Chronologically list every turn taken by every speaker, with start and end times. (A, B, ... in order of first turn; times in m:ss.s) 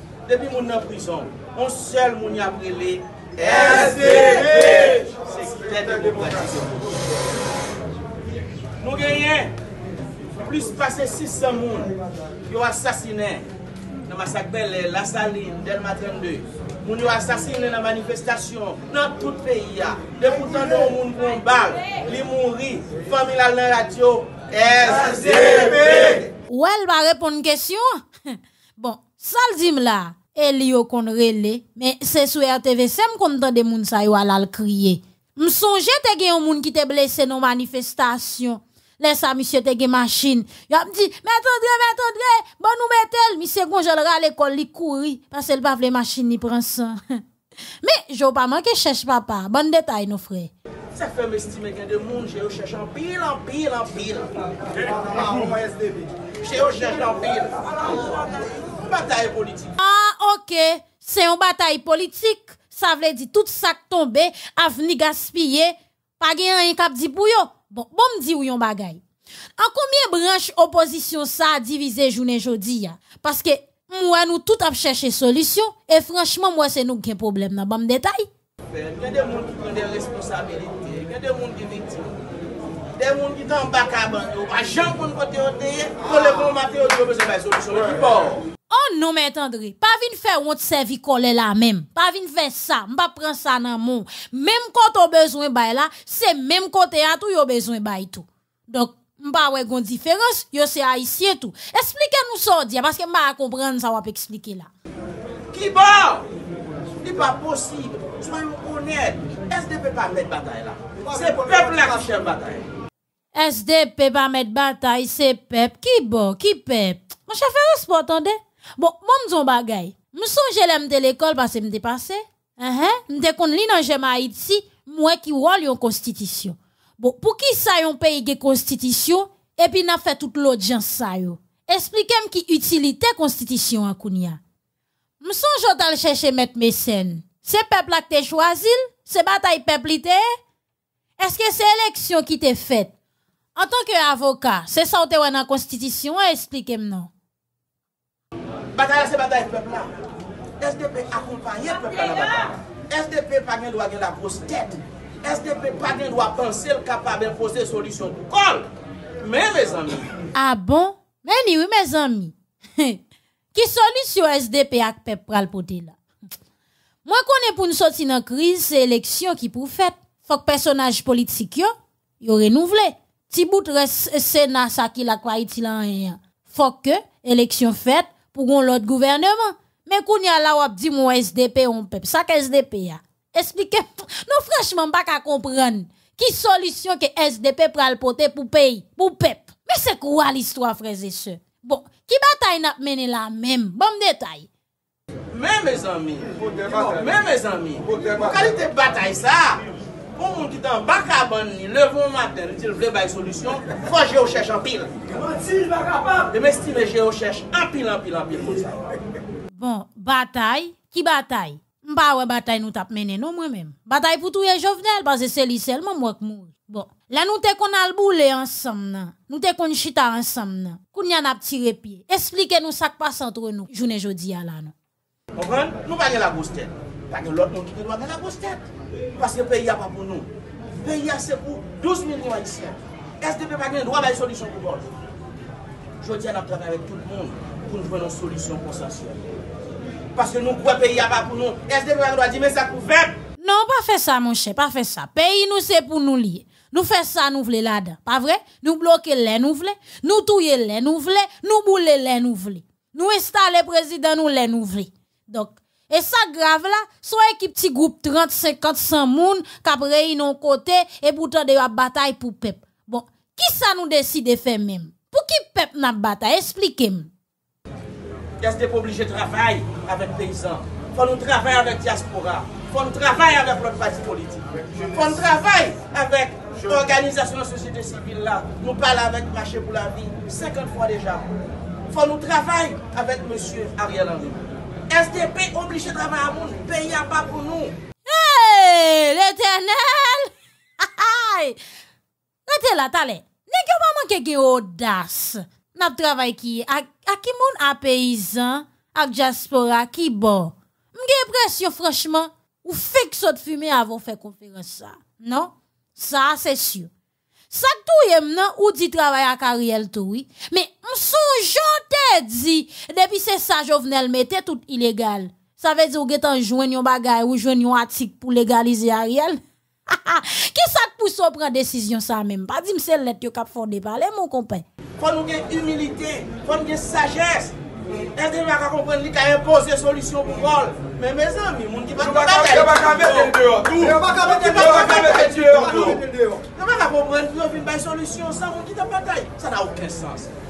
0:00.3-0:07.0 A
0:03.4-0:06.4 B
0:08.8-0:09.6 A
0:10.4-0:11.9 A
0:12.5-0:13.5 A
0:14.1-0:26.3 A
0:26.5-0:47.2 C
0:47.8-0:50.5 C
0:51.0-0:54.3 A
0:54.8-0:56.2 B
0:56.4-0:59.8 A
0:59.8-1:09.0 C
1:09.6-1:18.3 C
1:18.7-1:22.1 A
1:23.0-1:28.4 A
1:28.7-1:44.7 C
1:45.5-1:46.3 A
1:47.0-1:52.7 A
1:51.1-1:52.0 B
1:53.3-2:14.4 C
2:15.2-2:20.2 C
2:21.2-2:22.9 C
2:23.6-2:27.1 C
2:28.7-2:29.9 A
2:30.6-2:38.7 A
2:39.2-2:40.1 A
2:40.4-2:43.0 C
2:43.5-2:46.0 C
2:47.0-3:14.5 C
3:15.3-3:19.6 A
3:16.5-3:17.1 B
3:17.8-3:18.4 B
3:20.2-3:25.4 A
3:26.1-3:28.8 A
3:29.5-3:44.7 C
3:45.4-3:54.9 A
3:56.0-3:59.2 A
4:00.2-4:03.2 A
4:03.4-4:27.1 C
4:28.4-4:41.3 A
4:41.9-4:47.8 A
4:48.1-4:51.6 C
4:52.5-5:06.9 C
5:07.5-5:24.6 C
5:25.0-5:27.6 A
5:28.2-5:36.0 A
5:32.2-5:36.4 B
5:36.6-5:40.4 A